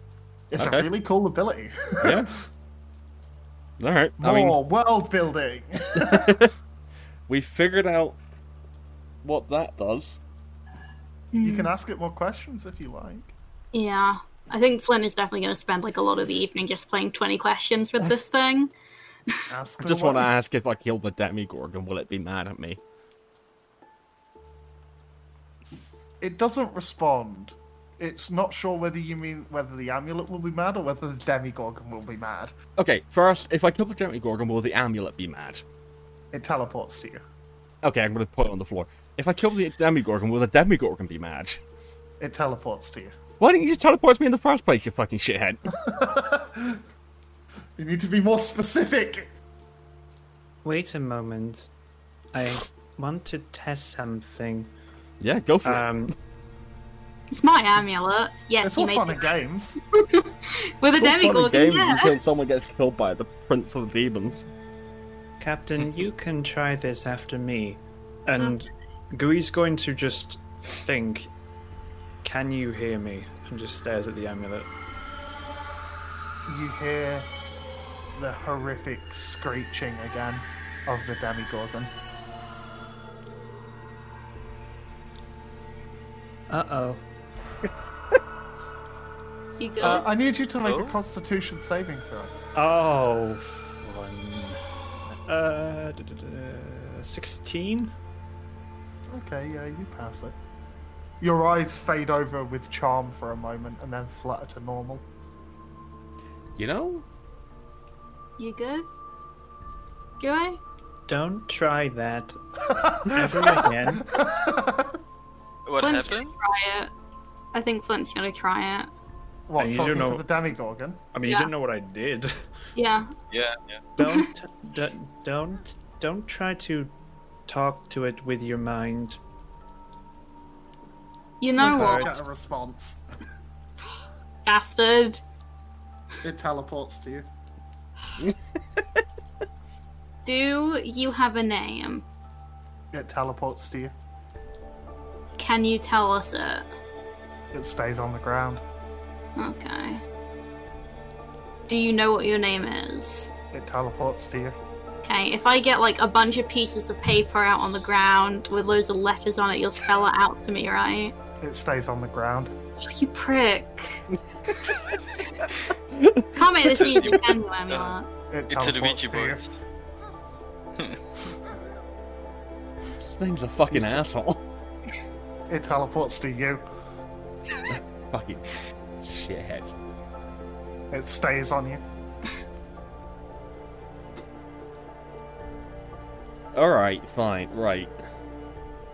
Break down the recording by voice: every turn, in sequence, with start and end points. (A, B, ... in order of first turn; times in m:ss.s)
0:00.5-0:02.3 A
0:00.6-0:00.9 B
0:02.0-0:02.3 B
0:03.8-0:04.6 B
0:04.2-0:06.4 A
0:05.9-0:06.5 B
0:07.3-0:08.2 B
0:09.2-0:10.2 B
0:11.3-0:11.7 C
0:11.4-0:13.4 A
0:13.7-0:18.7 C
0:19.5-0:20.3 A
0:19.8-0:22.8 B
0:26.2-0:32.5 A
0:32.8-0:35.6 B
0:36.3-0:37.2 A
0:37.8-0:41.6 B
0:42.2-0:43.1 A
0:43.4-0:45.6 B
0:45.8-0:46.8 A
0:47.8-0:49.3 A
0:50.6-0:51.7 D
0:52.3-0:54.7 D
0:55.2-0:55.9 B
0:55.6-0:56.1 D
0:57.3-0:59.3 C
0:58.6-0:59.8 A
0:59.9-1:02.2 C
1:01.0-1:04.4 B
1:05.4-1:11.3 D
1:12.2-1:14.7 D
1:16.5-1:17.3 A
1:18.1-1:21.9 A
1:26.5-1:27.0 D
1:29.6-1:30.0 C
1:29.8-1:32.3 A
1:30.6-1:31.0 E
1:32.5-1:34.6 D
1:35.1-1:37.9 D
1:39.1-1:40.4 A
1:41.2-1:45.0 A
1:46.6-1:47.0 B
1:48.4-1:48.9 C
1:50.2-1:50.6 C
1:51.1-1:52.4 D
1:52.6-1:55.0 A
1:53.0-1:54.0 D
1:55.6-1:56.3 E
1:55.8-1:56.9 C
1:57.5-1:58.9 C
1:59.5-2:01.0 A
1:59.6-2:00.2 D
2:01.1-2:02.3 D
2:01.2-2:01.5 C
2:02.8-2:03.1 C
2:03.3-2:03.8 E
2:04.0-2:04.3 C
2:04.0-2:06.9 D
2:07.5-2:09.2 D
2:11.4-2:12.1 C
2:11.6-2:13.0 A
2:11.6-2:12.1 D
2:14.4-2:15.2 C
2:16.2-2:17.3 A
2:20.2-2:22.0 C
2:22.9-2:23.9 A
2:25.4-2:26.6 C
2:27.5-2:28.6 A
2:29.4-2:30.0 C
2:31.7-2:33.3 C
2:33.5-2:34.6 A
2:35.0-2:41.1 C
2:41.4-2:42.5 A
2:42.8-2:44.6 C
2:45.9-2:47.2 B
2:46.4-2:48.0 C
2:47.0-2:47.9 E
2:48.3-2:49.4 A
2:48.5-2:49.5 E
2:53.0-2:54.4 B
2:53.7-2:54.0 A
2:55.5-2:56.6 A
2:57.7-2:58.5 B
2:59.0-2:59.7 B
3:00.9-3:01.8 A
3:06.5-3:07.9 B